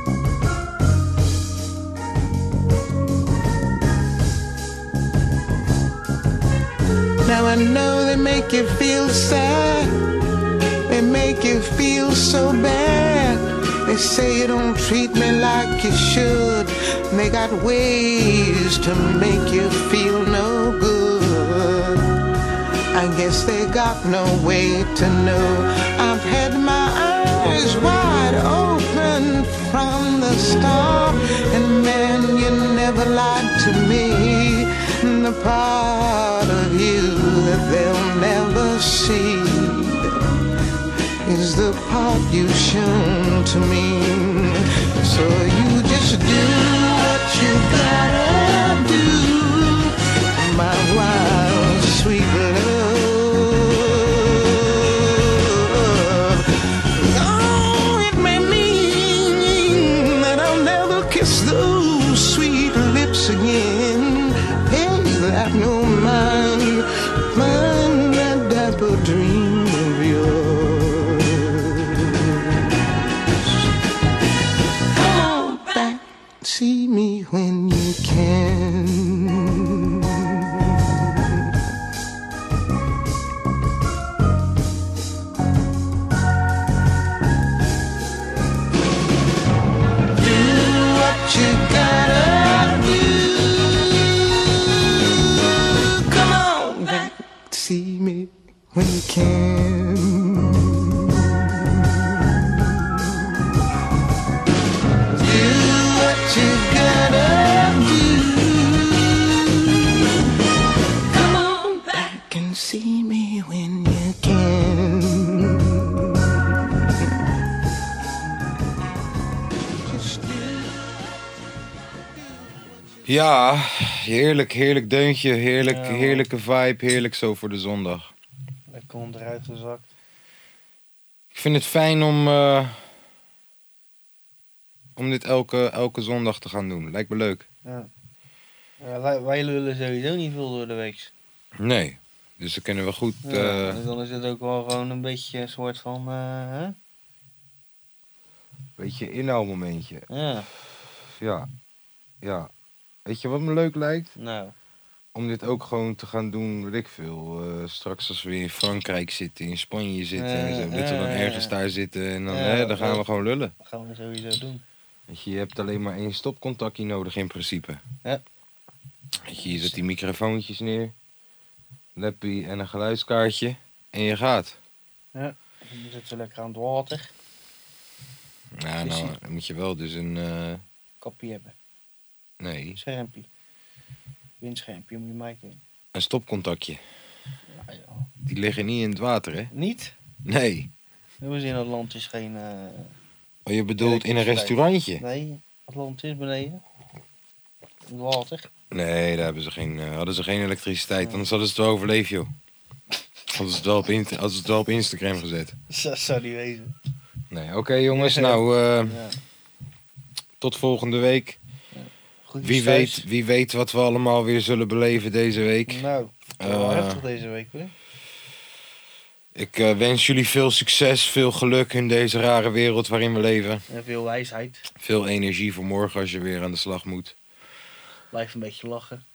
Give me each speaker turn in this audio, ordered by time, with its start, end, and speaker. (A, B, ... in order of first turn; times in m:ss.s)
0:07.2-0:10.0 A
0:10.9-0:22.1 A
0:22.9-0:40.3 A
0:41.2-1:12.7 A
1:13.2-1:13.7 A
1:14.9-1:21.5 A
1:30.2-1:33.9 A
1:35.9-1:42.9 A
1:45.1-1:49.7 A
1:51.1-1:56.0 A
1:59.8-2:01.1 A
2:02.5-2:02.7 A
2:03.1-2:08.1 B
2:05.6-2:06.3 C
2:08.7-2:09.9 C
2:11.3-2:12.8 B
2:15.0-2:17.5 B
2:18.8-2:21.1 C
2:21.6-2:23.8 B
2:23.2-2:26.8 C
2:28.8-2:30.1 B
2:30.1-2:30.5 C
2:31.1-2:31.5 B
2:32.2-2:32.5 B
2:33.1-2:34.1 B
2:34.2-2:34.6 C
2:35.1-2:43.5 B
2:40.2-2:41.6 C
2:42.3-2:43.0 C
2:43.6-2:44.6 C
2:45.1-2:47.8 B
2:49.2-2:50.9 B
2:49.4-2:49.8 C
2:52.0-2:54.6 B
2:55.1-2:57.1 C
2:58.6-3:00.6 B
2:58.8-2:59.2 C
3:01.0-3:01.6 C
3:02.4-3:02.8 B
3:02.8-3:03.3 C
3:04.4-3:05.6 C
3:05.9-3:06.8 B
3:07.5-3:08.1 C
3:08.3-3:09.5 B
3:09.5-3:09.9 C
3:10.2-3:10.7 B
3:11.2-3:12.9 C
3:13.5-3:15.0 B
3:13.8-3:16.6 C
3:17.9-3:18.5 C
3:18.7-3:22.3 B
3:23.3-3:25.6 B
3:25.7-3:26.8 C
3:27.3-3:29.0 B
3:27.9-3:29.2 C
3:30.4-3:31.4 B
3:31.7-3:33.1 C
3:32.4-3:35.8 B
3:35.7-3:37.7 C
3:36.4-3:37.0 B
3:39.4-3:43.6 B
3:43.7-3:44.7 C
3:44.8-3:47.2 B
3:48.1-3:49.0 C